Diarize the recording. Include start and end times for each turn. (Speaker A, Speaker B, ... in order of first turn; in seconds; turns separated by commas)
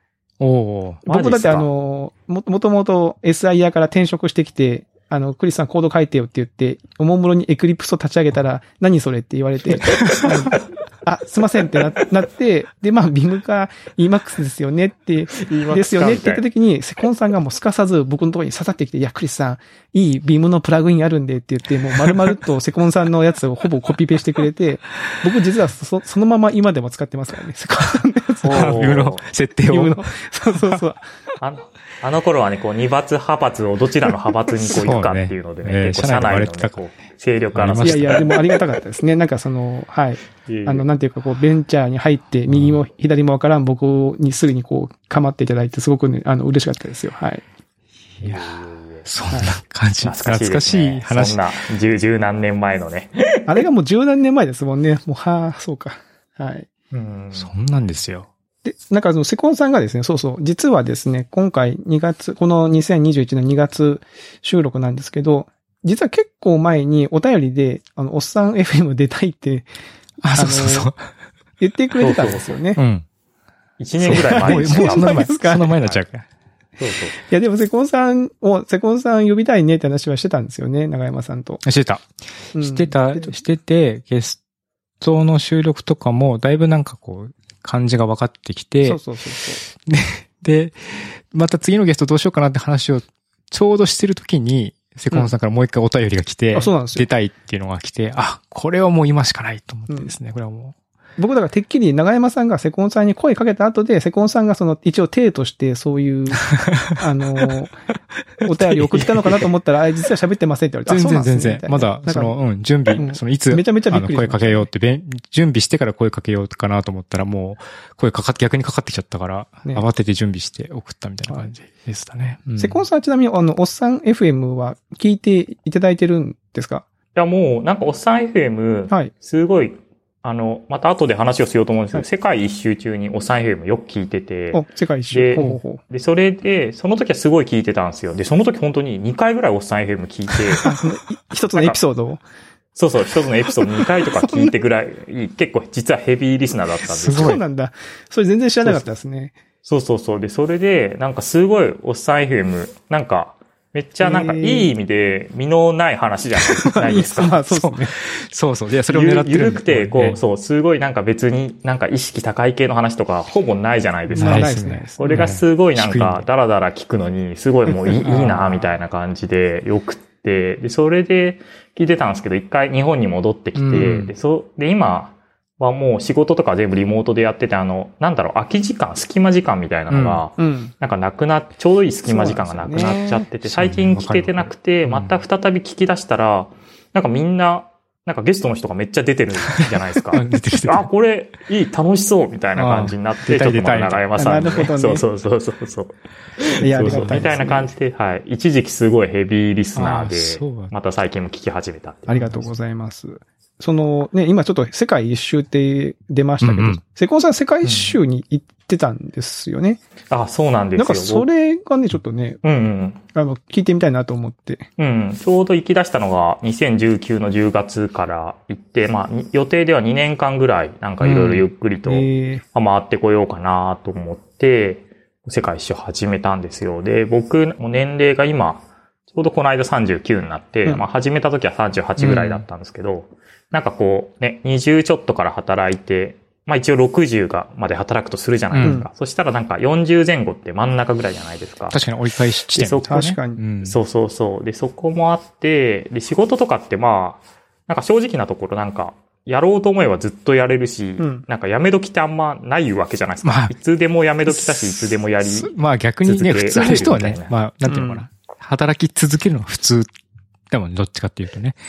Speaker A: 0.4-1.1, Speaker B: 1.1-1.7, Speaker C: 1.1-28.9, Speaker B: 15.3-16.4, Speaker A: 28.4-30.1, Speaker B: 28.4-29.2, Speaker C: 29.7-31.1, Speaker B: 31.4-38.4, Speaker A: 34.6-36.8, Speaker A: 37.5-38.3, Speaker C: 37.8-47.4, Speaker B: 40.5-40.9, Speaker A: 42.5-42.8, Speaker B: 48.2-49.1, Speaker A: 49.0-51.4, Speaker B: 50.0-53.6, Speaker C: 53.5-56.7, Speaker B: 56.9-57.5, Speaker A: 57.3-58.3, Speaker C: 58.6-69.7, Speaker A: 70.2-71.0, Speaker C: 70.3-70.9, Speaker C: 71.6-72.8, Speaker B: 72.0-72.6, Speaker A: 72.8-73.0, Speaker B: 73.8-75.2, Speaker C: 74.0-75.8, Speaker A: 74.0-76.2, Speaker B: 76.8-77.2, Speaker C: 77.3-81.6, Speaker A: 81.6-84.4, Speaker C: 82.5-83.3, Speaker A: 85.0-89.0, Speaker C: 88.8-89.6, Speaker A: 89.7-100.8, Speaker C: 96.5-97.1, Speaker C: 101.2-107.8, Speaker A: 106.5-107.0, Speaker C: 108.4-112.3, Speaker A: 108.7-109.0, Speaker A: 110.9-122.8, Speaker C: 112.9-114.7, Speaker C: 122.6-126.8, Speaker B: 127.2-140.7, Speaker C: 134.5-135.8, Speaker C: 140.6-142.2, Speaker B: 142.7-147.4, Speaker C: 143.7-144.5, Speaker A: 146.9-147.4, Speaker C: 147.1-149.3, Speaker B: 149.7-157.4, Speaker C: 154.0-154.7, Speaker C: 156.6-157.9, Speaker A: 157.5-160.2, Speaker B: 158.9-202.4, Speaker C: 164.1-165.3, Speaker A: 164.1-166.2, Speaker A: 168.0-168.7, Speaker A: 173.6-174.1, Speaker A: 179.9-180.2, Speaker C: 180.4-180.7, Speaker C: 182.1-183.3, Speaker A: 183.4-185.1, Speaker A: 189.5-190.9, Speaker A: 192.6-194.0, Speaker C: 194.2-195.0, Speaker C: 196.6-197.7, Speaker A: 196.8-197.2, Speaker A: 199.8-200.7, Speaker C: 202.1-209.8, Speaker A: 206.4-206.8, Speaker B: 207.6-207.9, Speaker B: 210.1-211.3, Speaker C: 210.8-212.4, Speaker B: 212.4-213.0, Speaker C: 213.1-214.7, Speaker B: 214.8-241.8, Speaker A: 221.0-221.4, Speaker C: 221.8-222.4, Speaker A: 232.0-232.4, Speaker A: 238.5-238.8, Speaker C: 238.6-238.9, Speaker A: 241.7-243.8, Speaker B: 242.5-243.0, Speaker C: 242.8-243.4, Speaker B: 243.6-257.4, Speaker C: 251.0-251.2, Speaker A: 253.2-253.5, Speaker A: 254.3-259.9, Speaker C: 257.7-258.0, Speaker A: 260.5-261.6